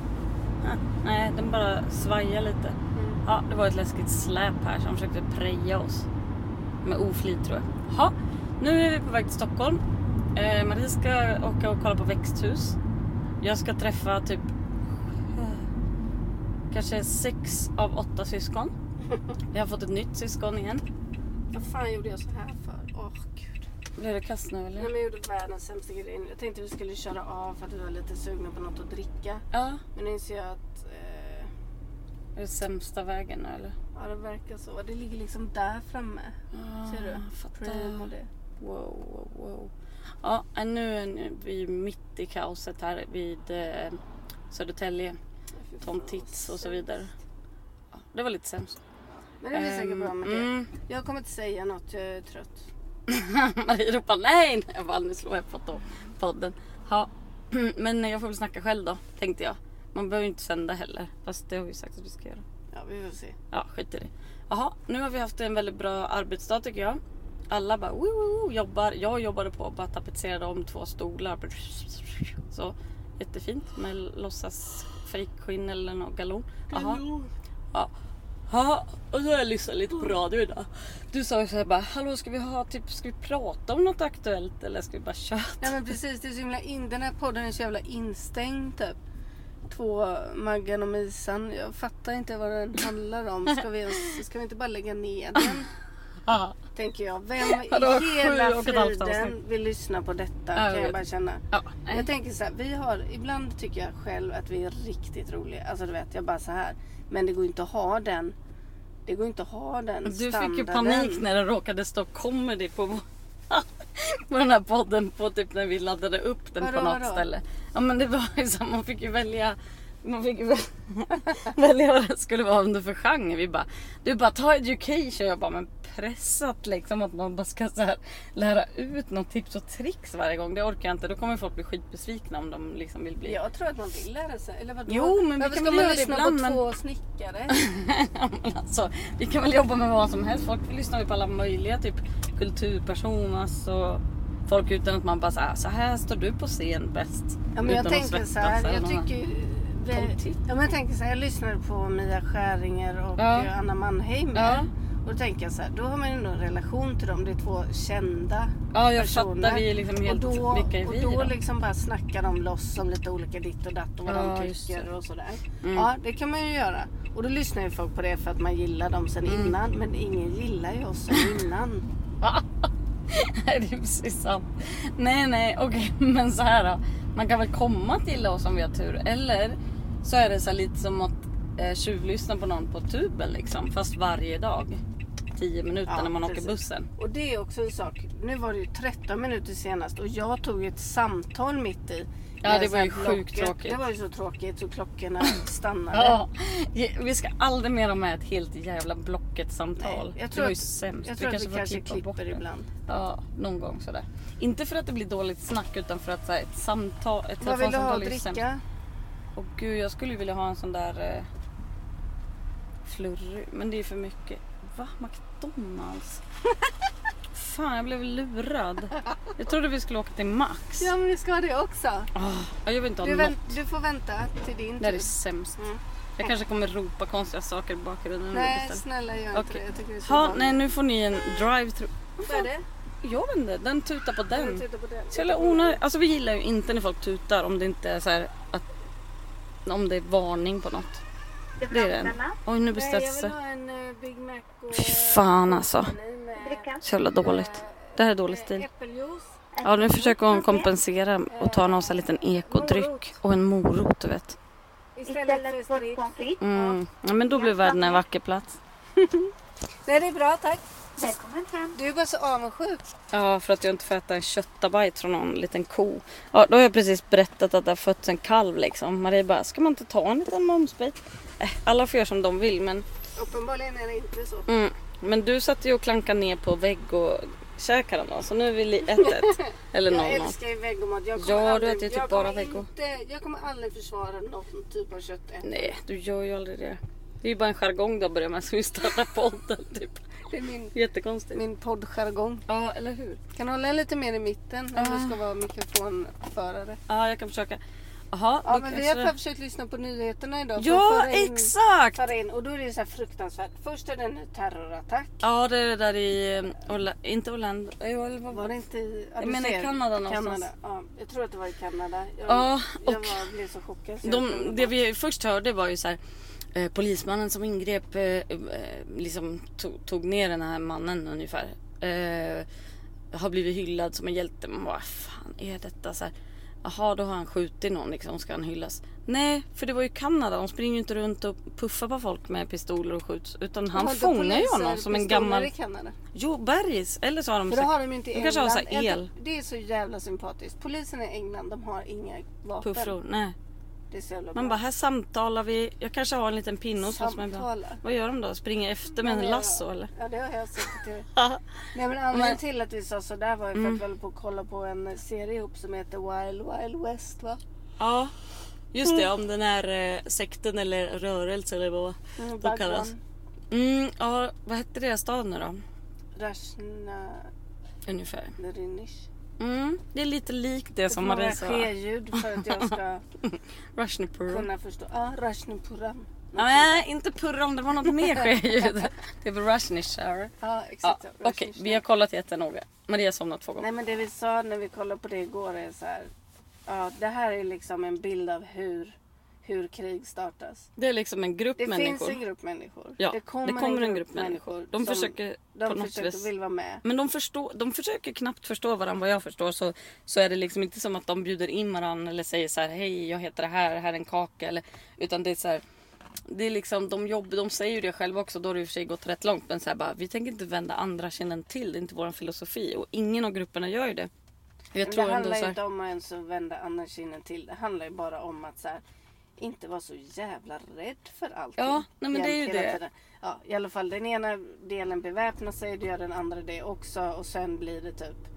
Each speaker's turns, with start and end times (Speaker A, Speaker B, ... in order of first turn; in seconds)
Speaker A: 0.6-6.1, 6.8-9.8, 10.3-12.8, 13.4-14.5, 15.3-15.7, 16.7-18.7, 19.5-20.8, 24.0-24.9, 29.5-29.8, 32.4-33.8, 36.5-38.1, 38.6-39.7, 40.2-45.2, 45.8-47.1, 48.0-48.8, 49.5-50.7, 53.1-62.4, 63.5-67.0, 67.5-77.0, 78.5-85.9, 96.3-96.5, 97.4-99.3, 100.5-101.0, 101.5-102.0, 110.0-133.4, 134.9-136.6, 137.5-149.1, 149.9-150.2, 153.2-153.5, 154.3-154.7, 158.7-161.3, 164.1-164.9, 165.6-165.9, 169.3-169.5, 172.2-184.8, 185.3-186.9, 192.4-193.8, 195.9-208.4, 209.3-211.3, 212.8-216.2, 217.3-220.9, 222.1-223.5, 224.8-225.6, 226.2-228.8, 229.3-232.5, 233.0-238.6, 239.7-241.0, 241.7-243.3, 244.7-245.9, 246.8-248.7, 249.6-254.4, 256.4-258.6, 263.1-272.8, 274.5-280.4, 281.1-282.7, 285.4-290.1, 290.7-291.4, 292.5-293.2, 294.8-295.2, 296.9-297.6, 298.1-299.1, 300.6-302.0, 305.2-308.5, 309.2-310.4, 312.2-313.2, 314.0-316.0, 316.5-322.5, 323.1-326.1, 326.6-335.5, 336.1-339.1, 342.6-343.4, 344.3-349.9, 351.1-351.5, 352.1-352.4, 353.6-353.8, 357.8-358.1, 358.7-362.9, 363.5-365.6, 367.9-368.4, 369.4-371.7, 373.2-374.5, 376.4-380.3, 380.8-383.7, 390.8-392.2, 393.0-396.3, 396.8-405.6, 406.3-414.1, 414.7-415.6, 421.6-422.8
Speaker B: 2.9-3.2, 21.5-23.6, 24.8-29.4, 29.9-31.5, 33.9-38.3, 45.6-46.8, 49.4-52.7, 62.7-63.4, 76.7-77.3, 85.6-89.0, 89.7-95.7, 96.7-108.3, 109.0-111.2, 116.6-117.3, 133.2-137.6, 147.6-171.8, 185.9-196.2, 199.8-202.7, 207.4-208.6, 220.8-222.1, 223.0-225.8, 228.3-230.6, 232.2-232.7, 234.3-235.8, 242.7-249.4, 250.1-250.7, 251.3-252.9, 254.9-256.8, 257.3-258.0, 259.0-259.3, 259.9-260.6, 261.7-262.9, 273.1-274.5, 278.9-285.8, 290.3-290.7, 291.3-292.4, 293.3-296.8, 298.4-305.2, 308.3-314.8, 333.7-335.9, 337.5-342.9, 343.9-344.6, 346.8-347.8, 348.9-351.1, 351.7-357.4, 362.2-363.0, 366.1-367.3, 368.4-369.1, 370.9-373.0, 374.3-376.8, 380.4-381.8, 383.6-386.1, 386.6-390.7, 391.6-396.8, 414.8-418.8, 419.4-428.2
Speaker C: 241.6-242.3, 246.5-246.8, 249.5-250.3, 255.1-256.4, 261.0-261.7